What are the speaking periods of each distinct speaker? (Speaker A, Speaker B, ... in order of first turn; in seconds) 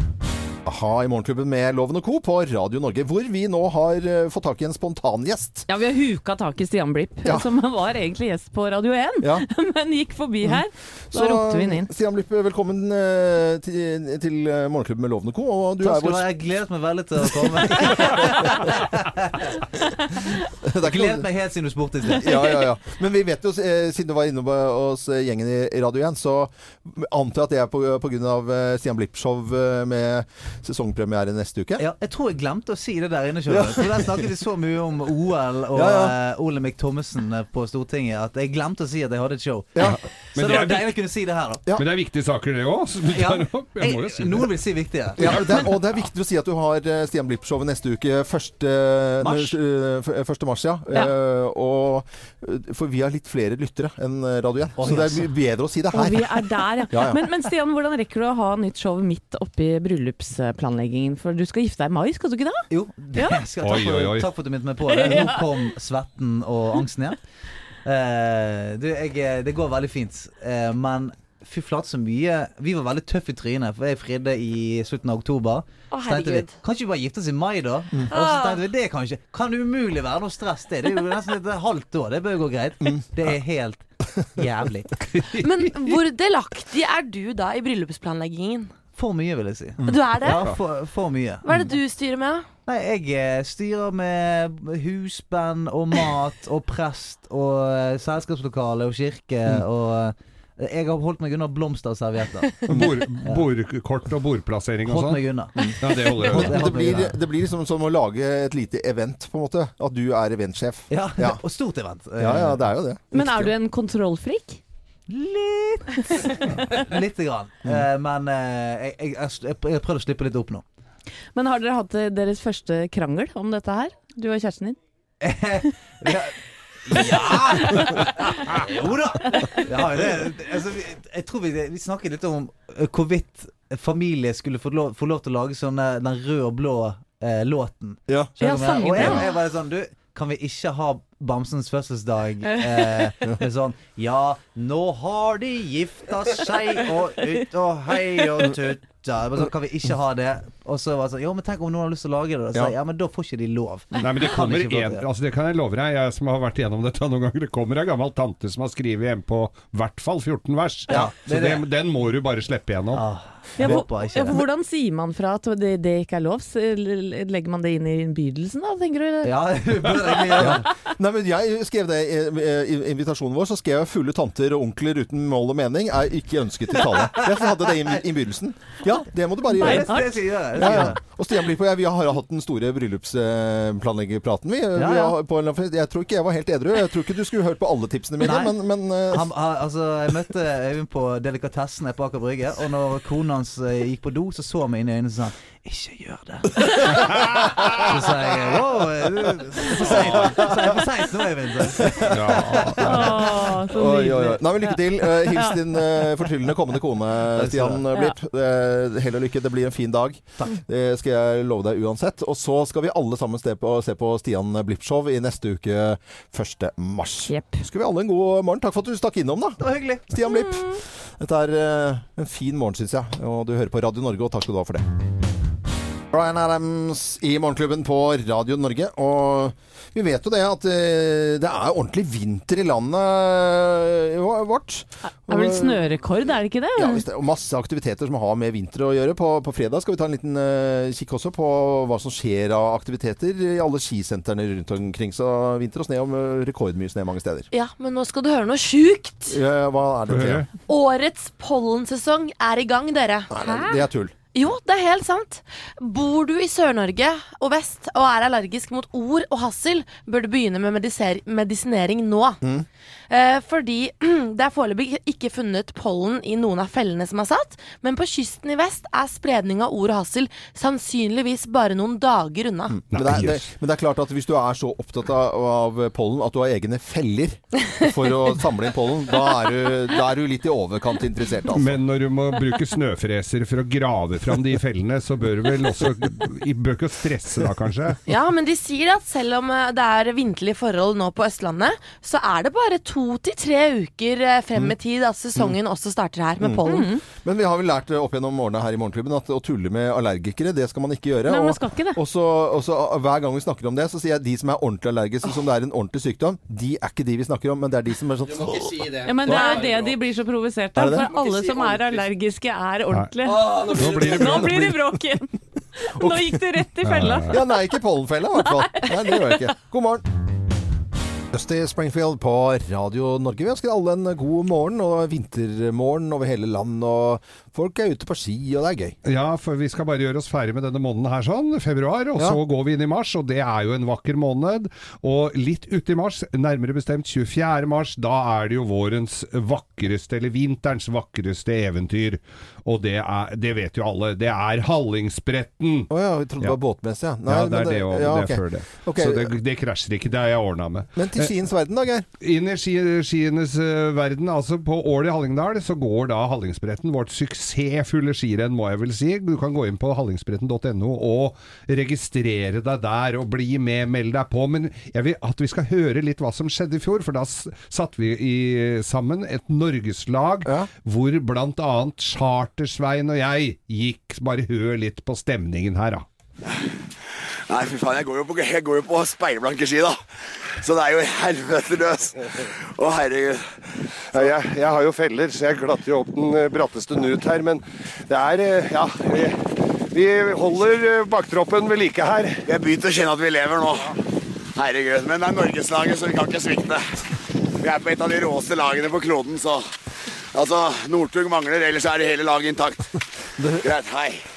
Speaker A: 0.7-5.7, 9.2-9.4, 10.4-16.3, 17.4-18.7, 20.6-21.3, 22.1-31.9, 33.5-34.3, 35.7-36.1, 45.2-57.2, 82.8-83.1, 102.7-102.9, 105.6-111.4, 112.2-113.5, 138.1-138.3, 138.9-139.2, 170.3-189.3, 199.7-200.7, 201.8-224.8, 226.1-235.8, 236.8-247.5, 249.3-250.4, 253.3-254.1, 272.7-281.8, 296.4-296.6, 297.2-309.7, 310.8-311.1, 313.7-314.8, 316.0-316.4, 317.2-320.0, 321.3-329.0, 345.9-349.3, 350.9-352.1, 403.4-403.7
Speaker B: 5.7-11.9, 55.9-63.4, 64.9-65.4, 113.1-114.6, 121.3-124.8, 127.6-127.9, 138.4-139.3, 163.6-169.3, 179.5-180.9, 202.8-205.6, 217.3-217.6, 235.3-237.0, 296.6-297.0, 301.2-302.0, 309.0-317.4, 318.4-319.4
Speaker C: 15.8-19.6, 20.8-22.6, 31.8-41.7, 43.0-45.5, 49.2-49.5, 54.8-55.3, 62.7-67.2, 67.8-85.0, 89.0-91.5, 92.7-103.4, 104.9-107.2, 110.9-112.6, 115.1-120.6, 125.2-155.0, 160.9-161.7, 162.9-164.4, 169.2-170.7, 176.9-177.9, 179.5-181.0, 184.7-185.2, 188.2-188.6, 189.1-202.8, 207.3-207.9, 219.6-220.1
Speaker D: 39.8-40.9, 41.7-44.5, 45.2-45.6, 63.6-64.3, 85.1-85.9, 102.7-106.7, 153.9-163.0, 202.1-203.0, 250.1-250.5, 272.9-273.5, 281.5-288.0, 312.9-314.8, 316.8-317.4, 329.0-346.6, 347.2-351.3, 352.2-376.0
Speaker E: 75.9-76.6, 78.1-78.6, 85.3-88.7, 89.8-90.6, 91.4-92.5, 247.5-249.4, 250.7-253.8, 254.3-262.4, 263.1-272.8, 288.1-296.9
Speaker F: 377.5-380.0, 380.6-383.4, 392.4-393.9, 394.6-396.8, 397.6-399.6, 400.3-402.9, 403.6-404.2
Speaker G: 384.1-392.4